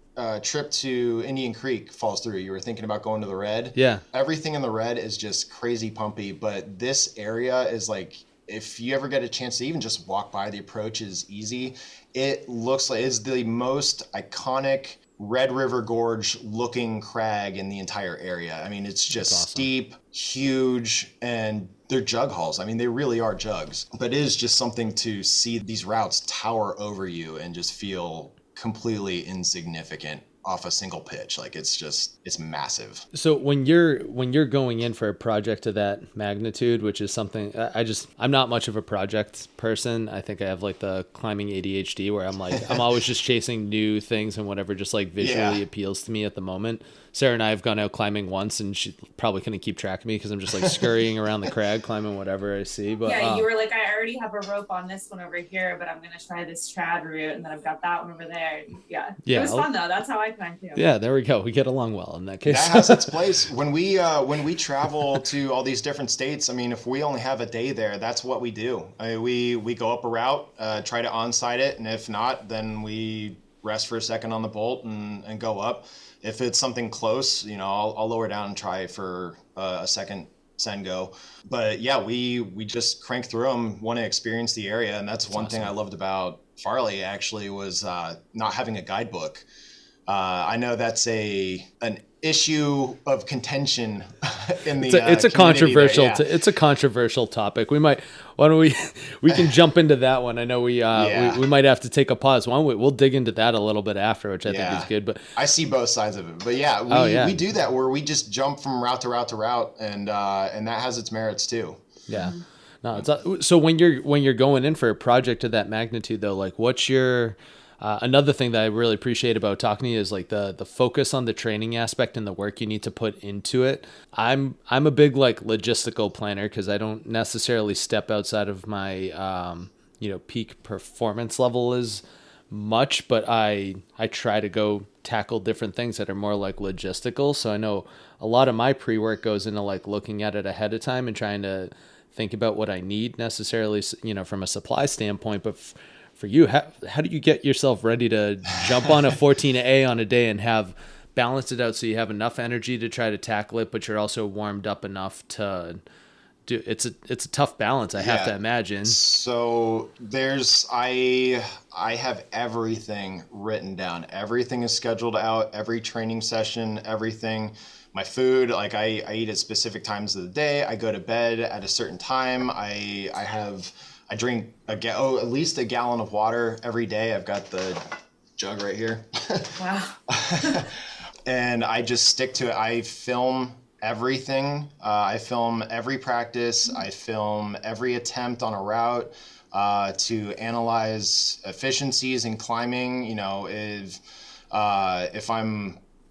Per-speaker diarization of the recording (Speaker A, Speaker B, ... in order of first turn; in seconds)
Speaker A: 0.1-33.0, 42.5-42.8, 45.2-45.6, 50.5-50.9, 62.5-89.4, 90.1-96.2, 99.3-99.5, 100.9-101.4, 104.5-111.8, 158.0-158.3, 158.8-177.8, 178.4-194.0, 194.5-195.8
Speaker B: 3.8-4.0, 19.1-19.7, 33.1-53.5, 59.2-59.7, 60.7-63.1, 85.2-85.7, 94.8-105.3, 106.9-107.4, 112.1-155.8, 156.4-159.0
Speaker C: 53.0-60.8, 112.1-112.4, 179.6-180.6